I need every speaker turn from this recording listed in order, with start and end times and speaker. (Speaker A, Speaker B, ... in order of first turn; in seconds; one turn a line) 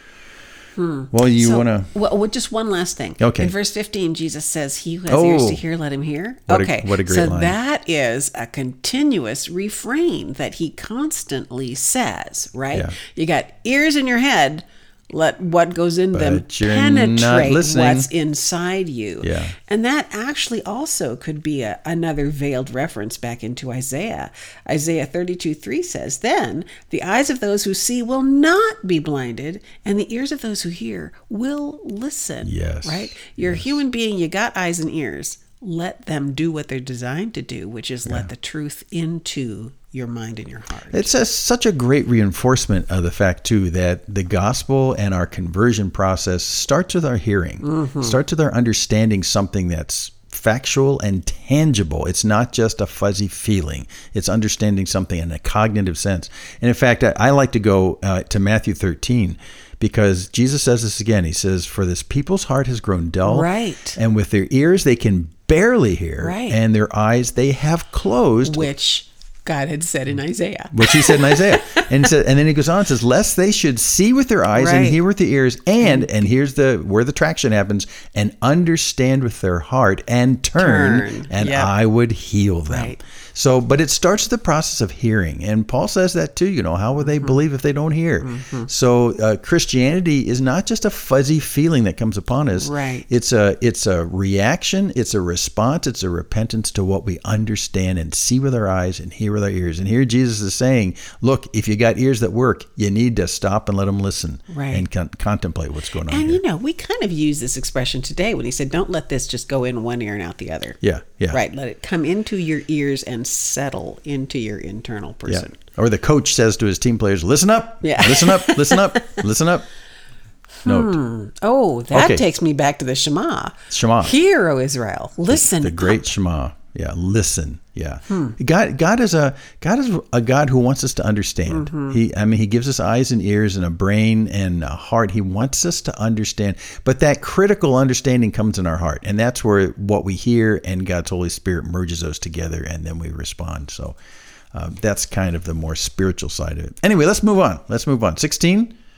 Speaker A: 0.8-41.1
Speaker B: 1.1-1.9
Speaker B: 3.2-3.5
Speaker B: 5.1-5.6
Speaker B: 6.5-7.6
Speaker B: 12.7-13.0
Speaker B: 16.1-18.1
Speaker B: 19.2-19.6
Speaker B: 32.4-33.8
Speaker B: 40.9-68.7
Speaker A: 47.6-48.2
Speaker A: 63.2-64.0
Speaker A: 66.2-66.6
Speaker A: 68.5-71.9
Speaker B: 70.7-106.4
Speaker A: 74.5-75.0
Speaker A: 75.8-76.1
Speaker A: 80.6-81.7
Speaker A: 82.7-83.0
Speaker A: 87.1-87.4
Speaker A: 88.2-88.7
Speaker A: 92.6-93.1
Speaker A: 104.5-104.8
Speaker A: 106.1-110.8
Speaker B: 110.8-111.4
Speaker A: 111.3-115.6
Speaker B: 115.3-119.7
Speaker A: 117.8-119.2
Speaker A: 120.6-126.0
Speaker B: 120.7-121.0
Speaker B: 121.9-122.3
Speaker B: 123.7-124.1
Speaker B: 125.3-144.0
Speaker A: 128.1-128.3
Speaker A: 131.5-132.0
Speaker B: 144.5-148.8